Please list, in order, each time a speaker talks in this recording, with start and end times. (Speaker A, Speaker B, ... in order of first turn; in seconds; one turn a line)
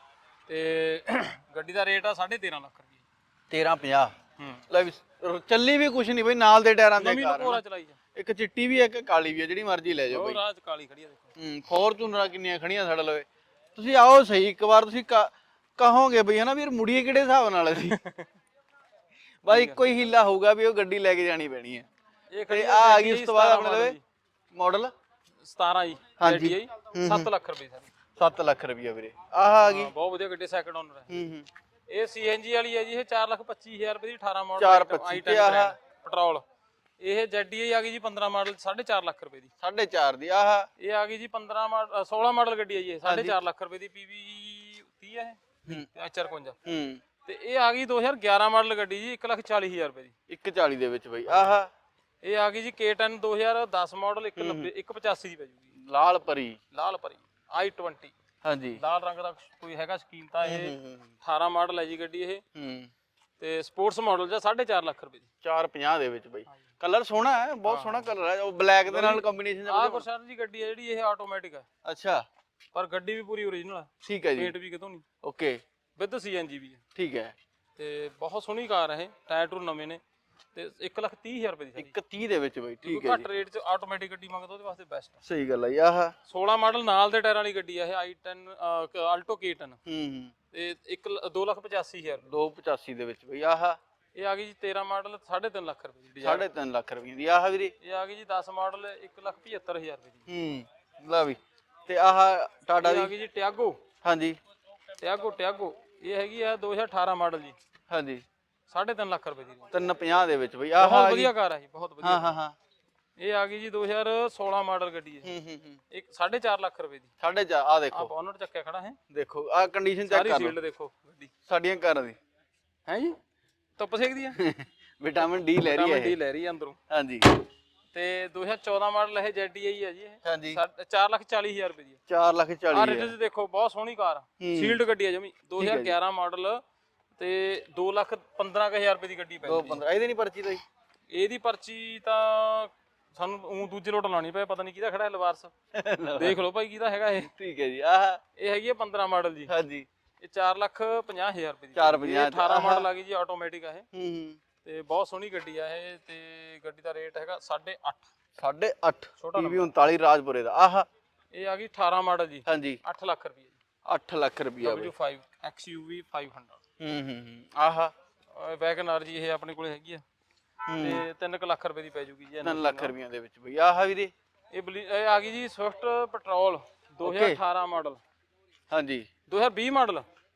Speaker A: 0.5-3.0
Speaker B: 3.5-4.1
Speaker A: 4.4-4.6
Speaker B: 4.7-7.6
Speaker A: 7.0-8.0
Speaker B: 8.2-10.4
Speaker A: 10.1-11.3
Speaker B: 11.4-18.0
Speaker A: 17.7-18.3
Speaker B: 19.4-21.9
Speaker A: 19.5-19.8
Speaker A: 22.3-24.0
Speaker B: 22.5-24.0
Speaker B: 24.5-24.9
Speaker A: 25.4-27.9
Speaker B: 26.2-27.3
Speaker B: 28.2-29.9
Speaker A: 29.6-31.1
Speaker B: 31.1-31.4
Speaker A: 31.9-36.4
Speaker B: 34.6-35.7
Speaker A: 37.0-39.5
Speaker B: 39.6-40.7
Speaker A: 40.8-46.6
Speaker B: 43.0-43.3
Speaker B: 46.6-47.0
Speaker A: 47.2-50.1
Speaker B: 50.3-51.7
Speaker A: 51.3-51.6
Speaker A: 52.2-55.7
Speaker B: 54.4-54.7
Speaker B: 55.8-56.6
Speaker A: 56.7-58.1
Speaker B: 58.4-58.8
Speaker A: 58.8-62.4
Speaker B: 60.4-61.1
Speaker B: 62.5-62.9
Speaker A: 63.4-65.3
Speaker B: 65.4-70.0
Speaker A: 67.6-68.1
Speaker A: 68.8-71.7
Speaker B: 71.8-72.2
Speaker A: 72.7-75.0
Speaker B: 74.0-74.5
Speaker B: 75.2-75.6
Speaker A: 76.0-76.8
Speaker B: 77.0-77.3
Speaker A: 77.8-80.0
Speaker A: 80.5-81.9
Speaker B: 81.8-83.3
Speaker A: 82.8-85.2
Speaker B: 85.2-86.1
Speaker A: 86.2-89.8
Speaker B: 89.8-90.3
Speaker A: 90.5-92.2
Speaker B: 92.2-93.8
Speaker A: 94.1-96.5
Speaker B: 96.2-97.7
Speaker A: 97.8-100.2
Speaker B: 100.3-103.1
Speaker A: 102.8-103.8
Speaker B: 104.0-104.4
Speaker A: 105.0-107.6
Speaker B: 107.9-108.2
Speaker A: 108.7-109.7
Speaker B: 109.7-111.3
Speaker A: 110.8-112.3
Speaker B: 112.0-112.5
Speaker A: 113.2-115.3
Speaker B: 115.2-115.8
Speaker A: 115.9-117.1
Speaker B: 117.2-118.1
Speaker A: 117.9-119.0
Speaker B: 119.1-120.5
Speaker A: 120.1-121.3
Speaker B: 121.5-122.2
Speaker A: 122.8-123.2
Speaker A: 123.8-124.4
Speaker B: 124.3-126.1
Speaker A: 125.5-126.8
Speaker B: 126.9-127.3
Speaker A: 127.9-132.0
Speaker B: 130.2-130.6
Speaker B: 132.1-133.1
Speaker A: 132.7-136.6
Speaker B: 134.4-134.8
Speaker B: 135.6-135.9
Speaker A: 137.2-139.8
Speaker B: 139.4-140.6
Speaker A: 141.1-145.5
Speaker B: 145.7-146.4
Speaker A: 146.2-147.3
Speaker B: 147.2-148.2
Speaker A: 148.3-149.5
Speaker B: 149.5-149.8
Speaker A: 150.2-153.8
Speaker B: 151.8-152.8
Speaker B: 153.9-154.4
Speaker A: 154.6-158.1
Speaker B: 158.4-160.9
Speaker A: 159.2-159.7
Speaker A: 161.3-163.6
Speaker B: 162.5-162.8
Speaker B: 163.8-164.9
Speaker A: 164.6-166.6
Speaker B: 166.8-167.9
Speaker A: 168.3-170.0
Speaker B: 170.7-171.0
Speaker A: 170.8-172.9
Speaker B: 172.4-174.1
Speaker A: 174.5-178.0
Speaker B: 177.0-177.4
Speaker B: 178.7-179.1
Speaker A: 179.3-180.1